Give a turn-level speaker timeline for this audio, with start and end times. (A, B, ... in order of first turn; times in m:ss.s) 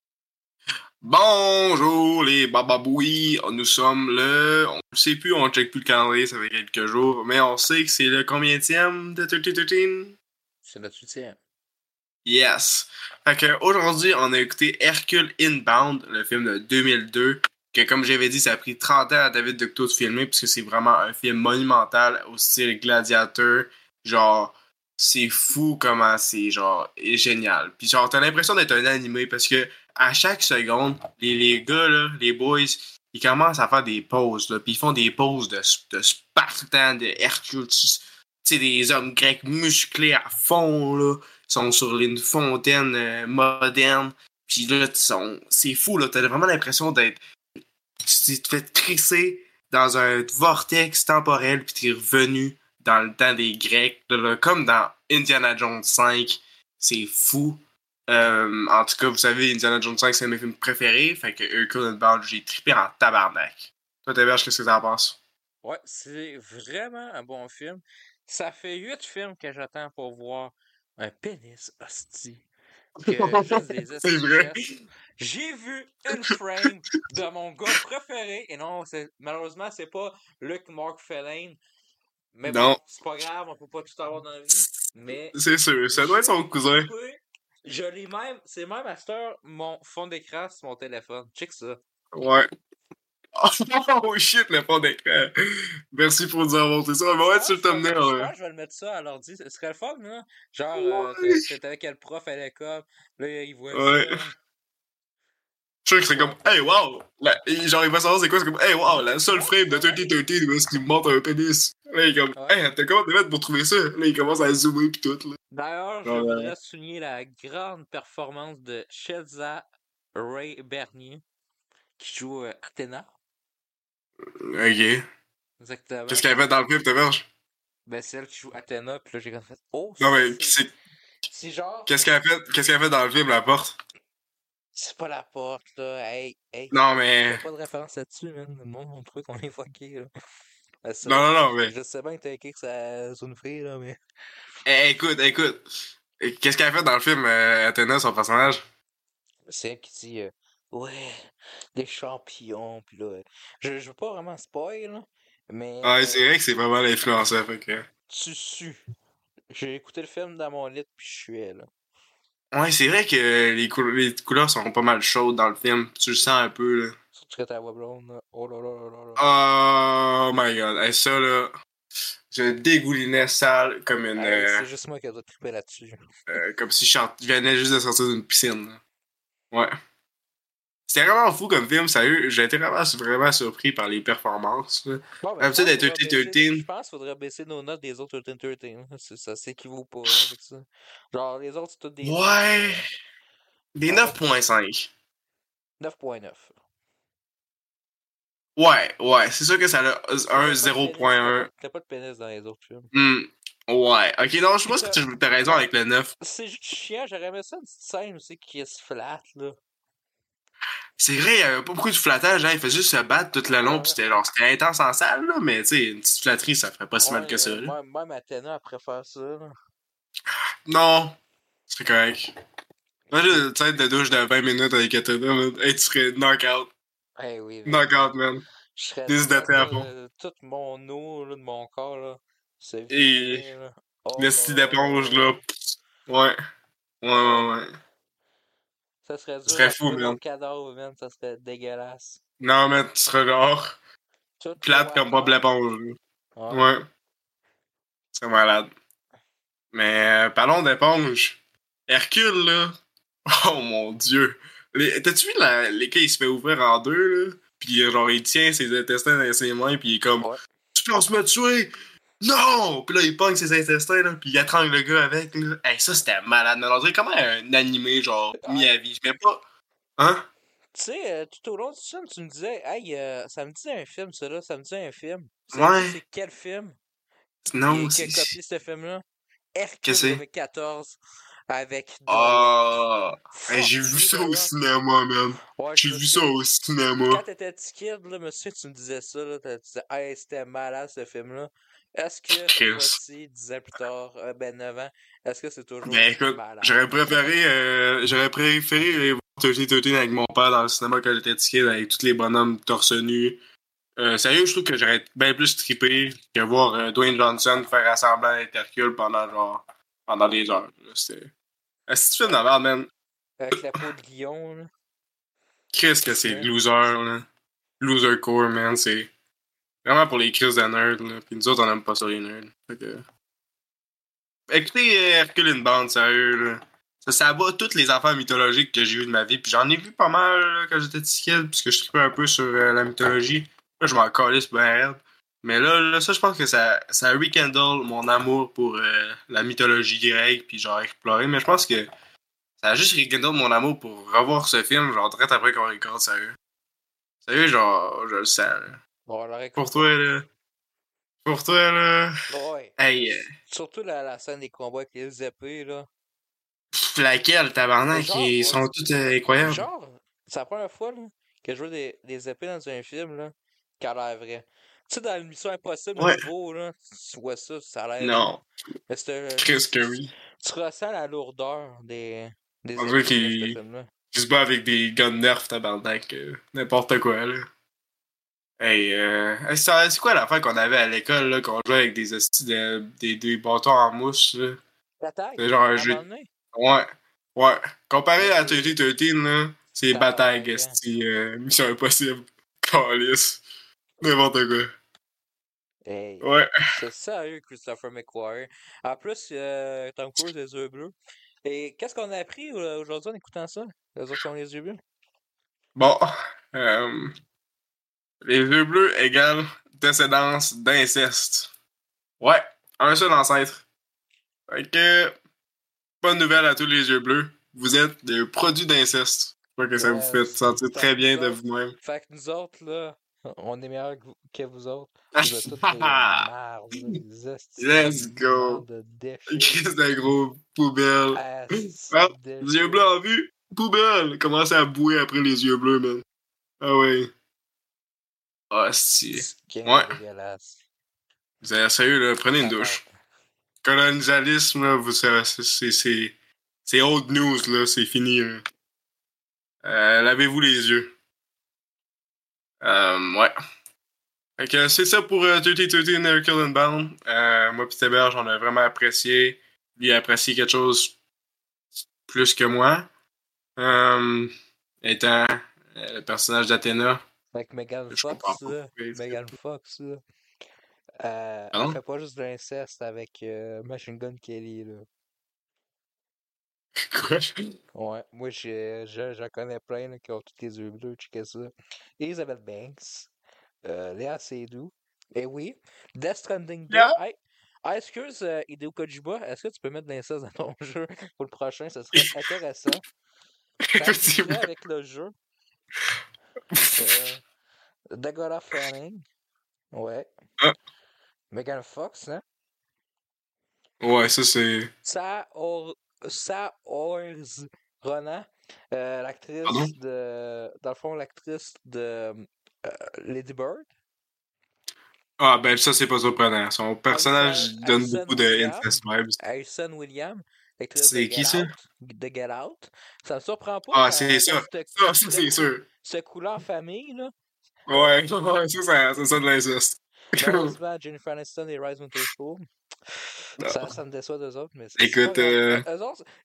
0:01.0-0:10.2 A
0:10.6-0:11.4 B
0:12.2-0:47.2 A
0:48.0-1:05.2 A
1:05.6-1:12.4 B
1:13.0-1:14.6 B
1:13.0-1:14.6 A
1:15.2-1:21.6 B
1:22.3-1:25.4 B
1:22.4-1:22.8 A
1:25.3-1:26.9 A
1:25.9-1:31.8 B
1:32.1-1:32.5 A
1:33.4-1:35.3 A
1:35.9-1:38.3 A
1:37.2-1:44.3 B
1:40.7-1:41.4 A
1:43.7-1:44.2 A
1:45.8-1:55.4 A
1:46.1-1:46.7 B
1:48.8-1:50.2 B
1:52.3-1:52.6 B
1:55.5-2:01.2 B
1:56.0-1:56.5 A
2:02.0-2:03.1 B
2:04.4-2:05.0 A
2:05.6-2:06.4 B
2:06.1-2:07.2 A
2:07.9-2:10.6 B
2:10.0-2:10.7 A
2:11.3-2:11.9 B
2:11.9-2:13.8 A
2:14.7-2:20.1 B
2:16.7-2:17.4 A
2:20.8-2:24.0 B
2:21.0-2:21.7 A
2:24.6-2:25.6 A
2:26.2-2:28.6 A
2:29.5-2:31.2 B
2:31.7-2:36.2 B
2:35.8-2:37.9 A
2:38.1-2:38.8 B
2:39.5-2:41.7 B
2:42.5-2:46.9 A
2:47.2-2:49.4 B
2:49.2-2:51.5 A
2:52.3-2:54.6 A
2:54.1-2:56.0 B
2:56.3-2:58.8 A
3:00.9-3:06.6 A
3:05.2-3:12.8 B
3:12.0-3:12.8 A
3:13.7-3:14.9 A
3:13.9-3:14.2 B
3:15.8-3:16.5 B
3:18.6-3:21.5 A
3:20.3-3:22.9 B
3:22.9-3:26.1 A
3:24.7-3:25.6 B
3:26.2-3:29.6 B
3:31.0-3:37.7 A
3:33.6-3:34.0 B
3:37.0-3:39.5 B
3:40.7-3:41.2 A
3:41.7-3:42.3 A
3:43.1-3:46.7 A
3:43.2-3:43.4 B
3:47.2-3:48.1 B
3:47.6-3:48.4 A
3:48.7-3:55.4 B
3:49.1-3:49.9 A
3:52.9-3:53.5 A
3:54.2-3:55.4 A
3:56.1-3:56.4 A
3:57.0-3:57.7 A
3:57.1-3:57.5 B
3:59.0-4:02.2 B
3:59.4-4:00.2 A
4:02.4-4:03.8 A
4:04.4-4:05.4 B
4:04.6-4:06.0 A
4:06.4-4:06.7 B
4:06.5-4:06.8 A
4:08.1-4:08.7 A
4:09.7-4:12.7 A
4:13.3-4:29.4 A
4:28.4-4:28.7 B
4:30.0-4:30.3 A
4:30.7-4:36.8 B
4:35.5-4:36.0 A
4:37.5-4:38.3 A
4:37.7-4:39.0 B
4:39.5-4:41.0 B
4:39.8-4:40.2 A
4:41.5-4:42.7 B
4:42.1-4:47.2 A
4:43.3-4:44.5 B
4:45.6-4:46.4 B
4:47.1-4:57.3 B
4:52.3-4:53.0 A
4:55.8-5:03.4 A
5:04.0-5:11.3 A
5:11.9-5:12.9 A
5:13.4-5:14.7 B
5:15.7-5:17.2 A
5:16.1-5:16.5 B
5:17.8-5:19.1 A
5:19.8-5:23.0 A
5:24.5-5:41.9 A
5:42.6-5:46.4 A
5:47.2-5:48.8 A
5:49.0-5:49.9 B
5:49.6-5:50.2 A
5:51.2-5:52.1 A
5:52.3-5:55.9 B
5:52.8-5:53.3 A
5:56.8-5:59.6 A
5:57.9-5:58.7 B
5:59.4-6:08.4 B
6:06.0-6:06.2 A
6:08.0-6:08.4 A
6:08.9-6:13.9 B
6:09.4-6:10.1 A
6:12.8-6:13.6 A
6:14.1-6:17.4 A
6:18.6-6:24.6 A
6:25.0-6:26.3 B
6:25.4-6:26.0 A
6:26.5-6:33.4 A
6:28.2-6:28.8 B
6:29.9-6:30.8 B
6:34.0-6:34.7 A
6:35.8-6:44.8 B
6:36.2-6:36.5 A
6:45.8-6:47.1 A
6:48.2-6:51.5 A
6:52.2-6:53.6 A
6:54.5-6:55.1 A
6:56.0-7:01.7 A
6:59.8-7:09.7 B
7:05.1-7:06.2 A
7:07.6-7:08.6 A
7:09.3-7:11.2 A
7:11.1-7:12.9 B
7:11.9-7:16.0 A
7:16.6-7:17.1 A
7:18.5-7:20.0 A
7:19.1-7:20.6 B
7:21.4-7:22.8 A
7:22.4-7:22.9 B
7:23.6-7:26.1 A
7:26.6-7:28.4 A
7:29.6-7:30.9 A
7:32.6-7:33.3 A
7:34.4-7:40.9 A
7:42.1-7:42.9 A
7:43.6-7:47.0 A
7:47.3-7:50.0 B
7:47.9-7:49.3 A
7:51.0-7:54.9 B
7:51.5-7:51.8 A
7:56.8-7:57.4 A
7:57.7-8:03.1 B
8:03.6-8:12.8 B
8:06.7-8:07.0 A
8:13.7-8:14.4 A
8:13.8-8:15.1 B
8:16.5-8:16.8 A
8:16.8-8:17.2 B
8:17.9-8:19.0 B
8:19.7-8:20.1 B
8:21.3-8:22.2 B
8:23.8-8:24.7 A
8:24.8-8:33.7 B
8:29.4-8:29.7 A
8:35.2-8:39.2 A
8:36.9-8:47.1 B
8:40.8-8:41.5 A
8:43.7-8:45.6 A
8:47.7-8:48.0 B
8:47.7-8:50.5 A
8:50.2-8:52.5 B
8:53.4-8:56.0 B
8:53.4-8:53.7 A
8:54.8-8:55.6 A